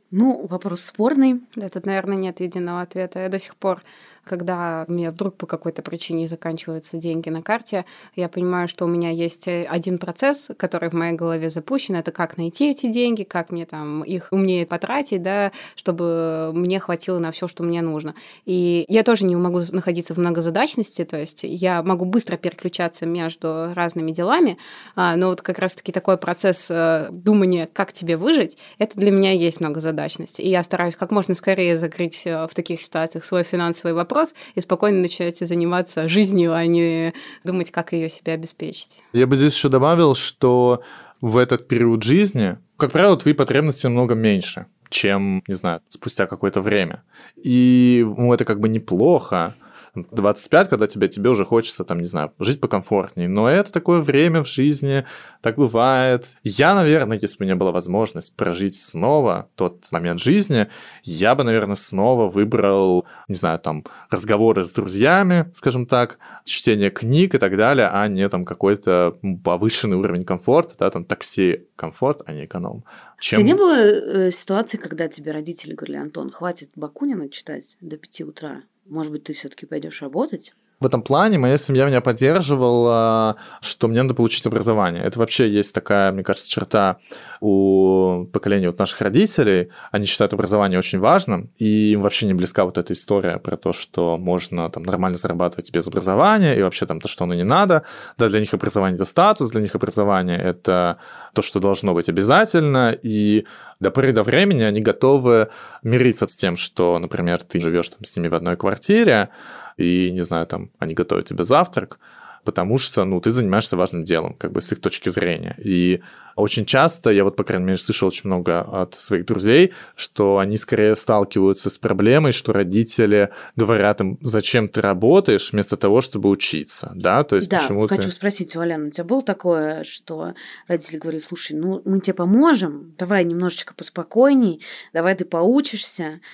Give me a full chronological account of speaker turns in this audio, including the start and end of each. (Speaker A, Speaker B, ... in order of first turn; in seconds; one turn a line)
Speaker A: 0.1-1.4
Speaker B: 1.6-39.0
Speaker C: 39.1-73.6
Speaker A: 73.3-80.5
Speaker C: 80.8-128.1
Speaker A: 127.4-136.2